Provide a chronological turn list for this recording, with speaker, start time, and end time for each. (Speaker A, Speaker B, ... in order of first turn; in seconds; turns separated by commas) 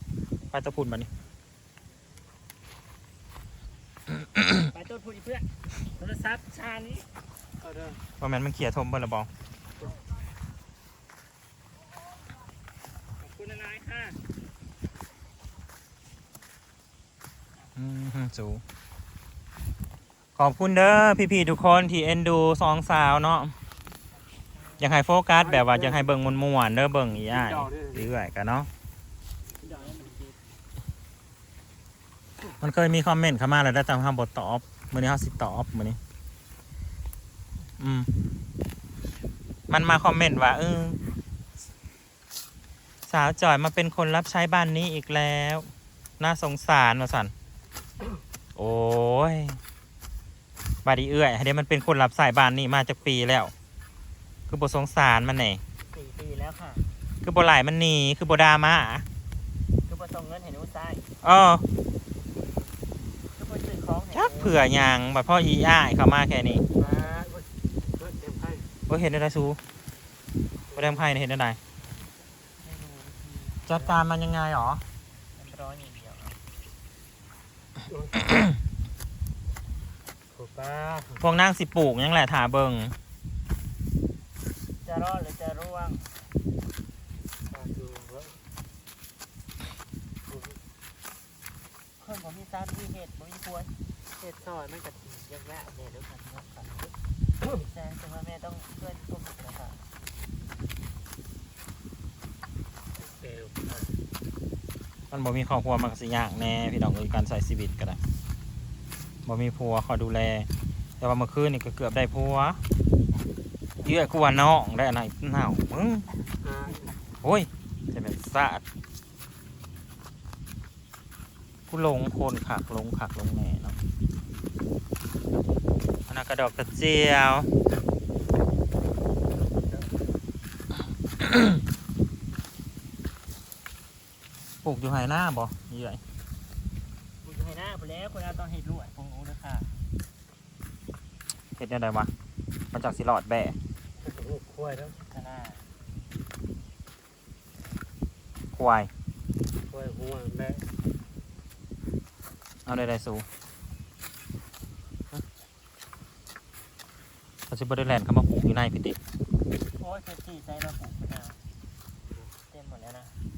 Speaker A: 0.5-1.1, Speaker B: 4.5-7.1, Speaker C: 7.6-8.0, Speaker A: 8.2-9.3, Speaker B: 13.2-14.2, Speaker A: 17.8-18.6, Speaker A: 20.4-23.5, Speaker B: 24.5-24.9, Speaker A: 24.8-28.7, Speaker C: 25.4-26.1, Speaker C: 27.3-28.1, Speaker B: 29.6-30.4, Speaker A: 32.6-36.0, Speaker A: 37.8-38.1, Speaker A: 39.7-41.0, Speaker A: 43.1-47.3, Speaker A: 48.6-49.6, Speaker A: 50.8-53.5, Speaker A: 54.5-55.6, Speaker B: 55.9-56.9, Speaker A: 57.2-59.0, Speaker B: 59.9-61.1, Speaker A: 61.2-61.6, Speaker B: 63.3-64.6, Speaker A: 64.1-66.6, Speaker B: 66.7-67.1, Speaker C: 66.7-68.7, Speaker A: 68.9-69.6, Speaker C: 70.7-71.0, Speaker A: 70.8-71.6, Speaker B: 72.6-74.0, Speaker A: 73.7-74.8, Speaker B: 75.3-76.4, Speaker C: 77.9-78.2, Speaker C: 80.3-81.2, Speaker A: 81.2-82.9, Speaker B: 84.8-86.1, Speaker C: 87.5-88.4, Speaker C: 90.3-90.6, Speaker B: 92.0-96.9, Speaker B: 97.5-99.9, Speaker C: 103.0-103.9, Speaker A: 105.1-108.0, Speaker A: 109.2-110.5, Speaker A: 111.0-112.6, Speaker A: 113.8-116.1, Speaker C: 116.4-116.9, Speaker A: 117.2-118.6, Speaker A: 121.7-123.8, Speaker A: 126.1-127.5, Speaker A: 134.6-136.0, Speaker B: 137.2-139.8, Speaker A: 141.6-142.1, Speaker A: 142.7-143.6, Speaker C: 144.0-144.9, Speaker B: 144.8-145.7, Speaker A: 148.5-148.9, Speaker C: 149.7-150.7, Speaker A: 152.7-153.2, Speaker A: 157.5-159.0, Speaker B: 159.8-161.4, Speaker B: 162.5-163.2